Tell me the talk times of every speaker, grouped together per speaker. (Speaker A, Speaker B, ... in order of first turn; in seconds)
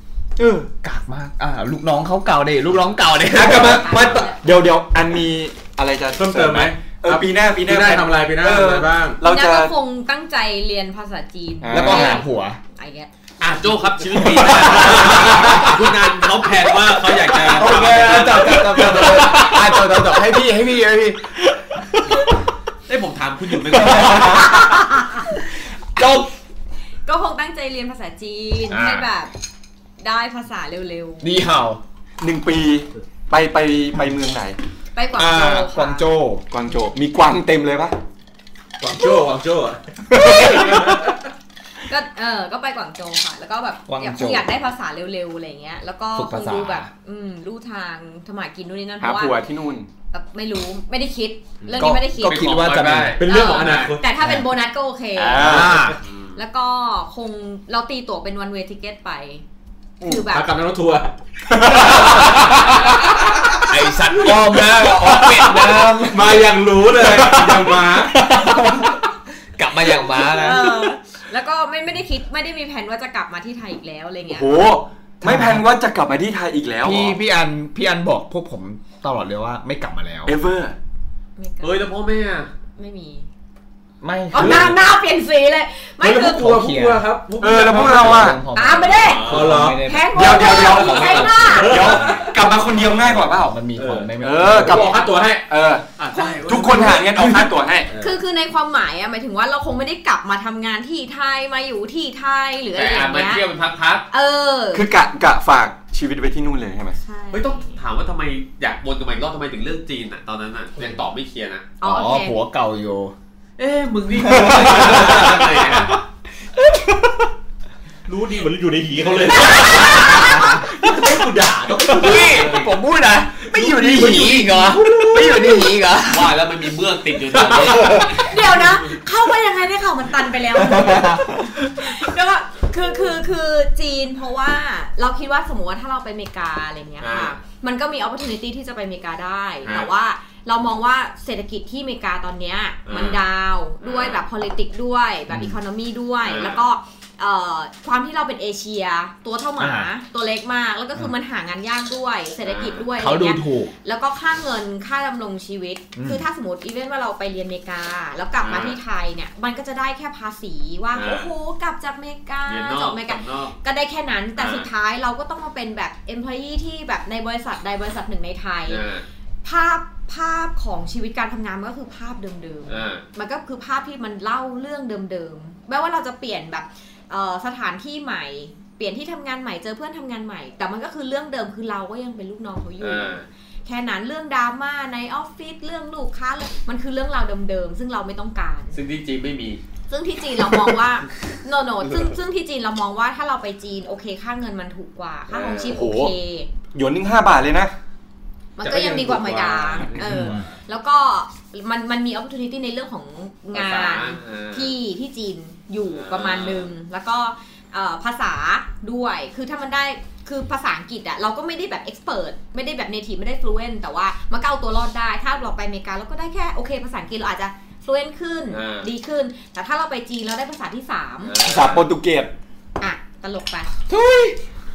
Speaker A: 0.4-0.7, 3.3-9.7, 11.6-12.2, 32.2-34.6, 36.5-38.0, 40.1-40.8, 49.0-49.9, 51.8-53.1, 55.1-55.9, 61.5-62.7, 66.9-67.8, 74.3-77.2, 80.2-80.8, 87.4-88.4, 90.1-93.6, 94.2-97.9, 104.7-107.0, 114.4-115.2, 195.4-196.1, 196.7-197.7, 221.4-222.3
Speaker B: 0.8-4.0, 11.7-12.6, 17.4-21.2, 23.8-24.6, 26.0-26.3, 28.7-29.1, 31.2-31.8, 35.1-36.5, 43.9-44.4, 46.1-46.9, 51.9-53.1, 54.2-54.4, 55.4-56.0, 61.9-62.4, 63.6-66.5, 68.1-69.0, 69.6-70.9, 75.2-75.7, 76.8-80.3, 84.0-84.8, 86.2-87.0, 87.7-91.9, 93.2-95.1, 111.8-113.1, 119.6-120.6, 121.9-126.4, 130.6-131.5, 145.3-145.6, 149.6-149.9, 152.9-153.7, 155.9-156.2, 200.0-200.5, 223.9-224.4
Speaker C: 3.4-4.4, 9.2-13.1, 24.4-25.2, 27.1-29.3, 30.0-31.3, 34.9-36.1, 41.9-49.4, 50.1-52.7, 53.2-55.6, 56.3-59.4, 60.0-60.5, 70.1-74.7, 81.4-81.8, 82.8-83.3, 84.3-86.5, 88.5-92.2, 96.1-96.8, 98.0-103.4, 104.1-104.9, 107.0-107.8, 111.8-112.3, 119.4-120.5, 127.8-168.8, 169.4-188.8, 189.9-196.5, 198.6-221.4, 222.8-223.7
Speaker D: 6.1-9.2, 14.8-15.6, 17.8-18.2, 38.8-41.2, 53.2-54.1, 60.2-63.6, 64.2-68.2, 84.3-84.7, 86.0-88.3, 89.1-89.8, 91.4-92.4, 93.7-95.5, 96.7-97.0, 97.9-98.2, 118.0-122.6, 123.5-125.5, 127.3-128.0, 198.6-200.6
Speaker E: 13.4-19.2, 22.9-24.5, 52.2-53.9, 56.0-56.4, 81.6-82.5, 89.1-89.5, 96.0-97.3, 102.7-104.0, 107.3-111.7, 113.6-116.0, 122.0-122.7, 126.0-128.3, 137.0-137.4, 139.6-139.9, 142.9-143.2, 143.8-144.2, 146.2-146.6, 152.4-152.8, 158.4-158.8, 160.9-161.3, 162.4-163.5, 164.4-164.7, 168.7-169.0, 172.7-173.0, 182.8-183.2, 188.7-189.6, 195.3-195.8, 203.5-204.7, 205.9-206.7, 218.5-218.9, 221.2-221.9